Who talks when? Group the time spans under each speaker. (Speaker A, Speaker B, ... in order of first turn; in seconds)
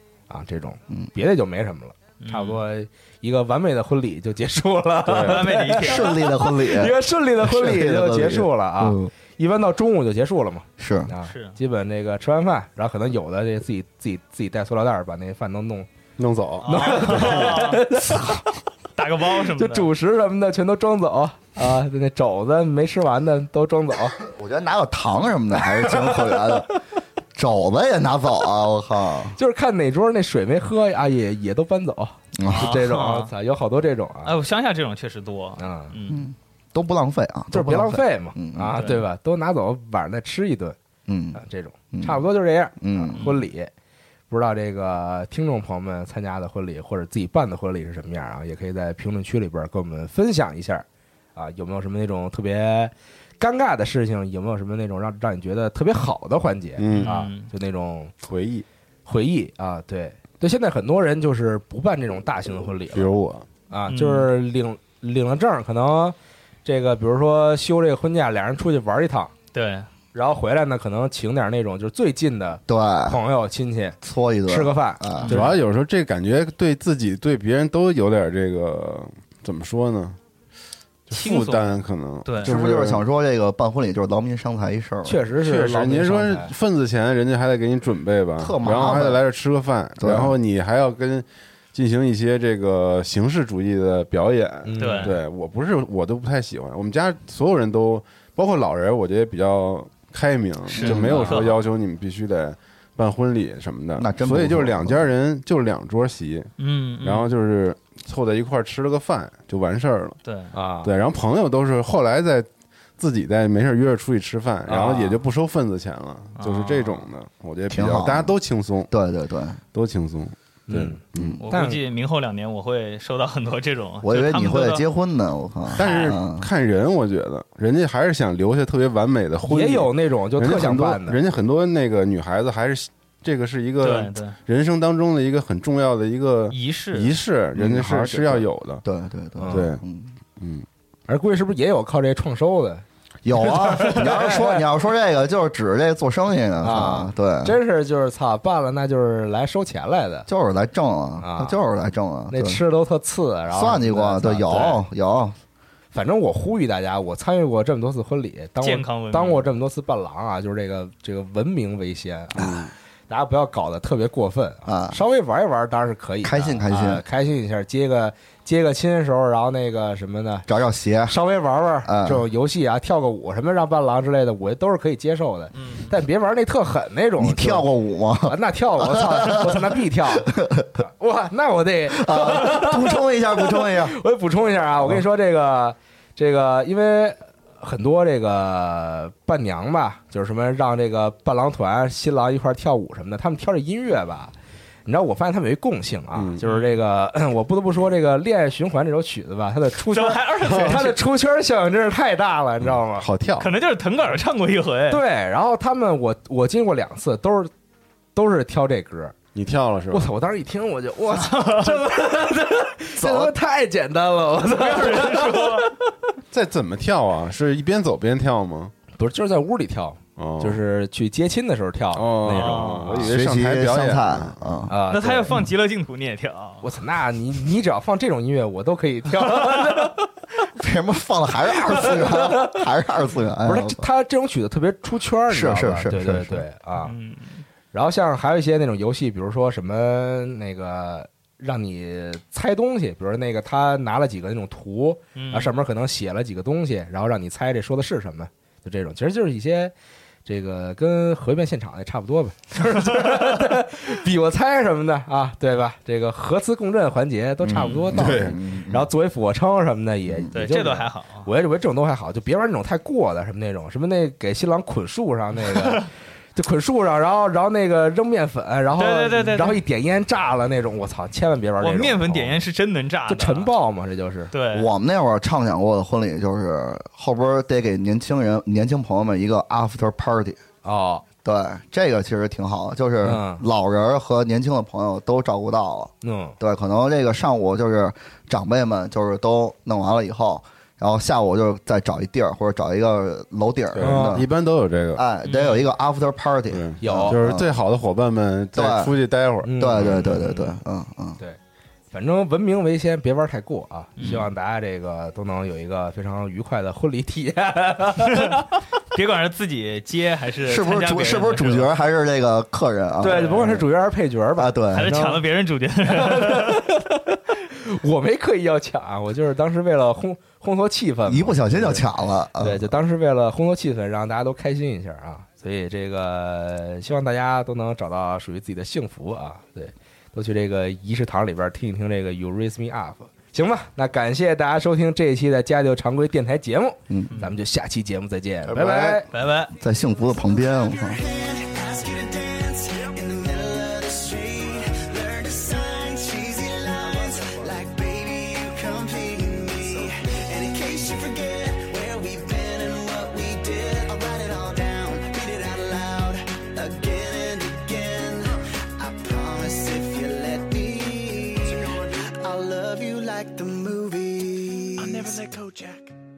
Speaker A: 0.3-15.9, 16.6-18.4, 19.6-24.2, 29.4-34.3, 35.6-35.9, 37.5-40.8, 41.3-43.7, 44.3-58.1, 59.1-63.1, 63.7-69.3, 70.1-75.6, 85.0-86.5, 94.6-95.2, 110.5-110.9, 114.7-115.2, 120.7-121.8, 129.4-131.2, 139.4-139.7, 141.1-142.8, 143.3-144.6, 146.6-150.3, 151.2-151.6, 152.3-154.8, 155.9-170.4, 171.1-177.7, 178.2-194.3, 194.8-203.1, 204.9-207.5, 208.1-209.2, 209.9-215.8, 219.0-223.1, 224.7-225.5, 226.6-230.1, 231.7-232.6, 233.4-236.9, 237.7-249.7, 250.2-272.4, 273.1-274.3, 280.6-281.0, 283.0-283.4, 286.0-286.4, 293.8-294.2, 296.8-297.2, 299.4-300.0, 301.9-308.4, 313.0-315.2, 315.8-339.1
Speaker B: 2.2-2.6, 5.1-6.3, 11.2-11.5, 16.6-17.8, 18.9-19.9, 32.4-33.3, 34.2-36.2, 38.7-39.0, 43.1-43.4, 56.9-57.5, 63.9-64.3, 69.5-69.9, 75.2-75.4, 81.1-82.5, 94.8-95.2, 100.7-101.6, 106.6-107.3, 110.2-110.5, 116.4-117.1, 121.4-124.8, 125.8-126.2, 133.8-134.3, 136.5-137.2, 158.6-159.5, 175.5-175.9, 196.4-196.7, 199.9-201.0, 203.4-205.0, 211.1-211.8, 214.5-215.8, 222.2-223.0, 224.9-226.6, 236.8-237.4, 245.1-245.5, 252.7-253.4, 257.6-257.9, 260.3-261.3, 265.5-265.8, 268.8-269.6, 271.6-273.5, 274.3-274.7, 295.2-295.7, 300.1-300.6, 304.0-304.3, 308.1-308.4, 308.9-311.7, 313.1-313.6, 314.7-316.7, 339.1-339.5
Speaker C: 5.1-5.4, 16.2-17.6, 56.8-57.1, 58.2-58.6, 62.9-63.5, 75.3-80.2, 81.1-83.0, 85.4-110.2, 110.8-118.9, 119.7-121.4, 125.7-138.8, 139.5-139.8, 140.4-140.7, 196.1-196.4, 202.9-203.5, 209.3-210.1, 216.3-218.7, 220.2-220.6, 221.9-224.7, 257.9-258.4, 293.7-295.0, 296.5-300.1
Speaker D: 5.8-9.1, 10.8-11.1, 18.1-18.4, 24.2-26.8, 27.3-29.4, 32.3-32.8, 36.1-38.7, 41.1-41.4, 41.9-42.2, 42.8-43.2, 72.7-73.2, 74.0-75.4, 82.4-85.2, 88.4-89.2, 90.0-90.3, 100.7-101.4, 104.0-105.1, 117.7-118.3, 118.9-119.6, 121.1-121.4, 124.0-126.5, 137.5-140.1, 143.2-147.6, 150.3-152.6, 153.5-155.3, 162.3-162.7, 164.7-165.0, 166.2-167.0, 170.5-171.1, 171.8-172.2, 177.2-180.8, 181.9-184.0, 213.0-213.3, 223.0-224.7, 230.6-233.8, 235.3-236.4, 257.4-258.9, 274.5-280.4, 281.2-294.3, 294.9-297.5, 298.5-298.9, 299.6-301.2, 310.4-313.7, 314.4-314.9, 321.1-322.7, 336.9-337.1, 338.4-341.0
Speaker E: 340.2-366.0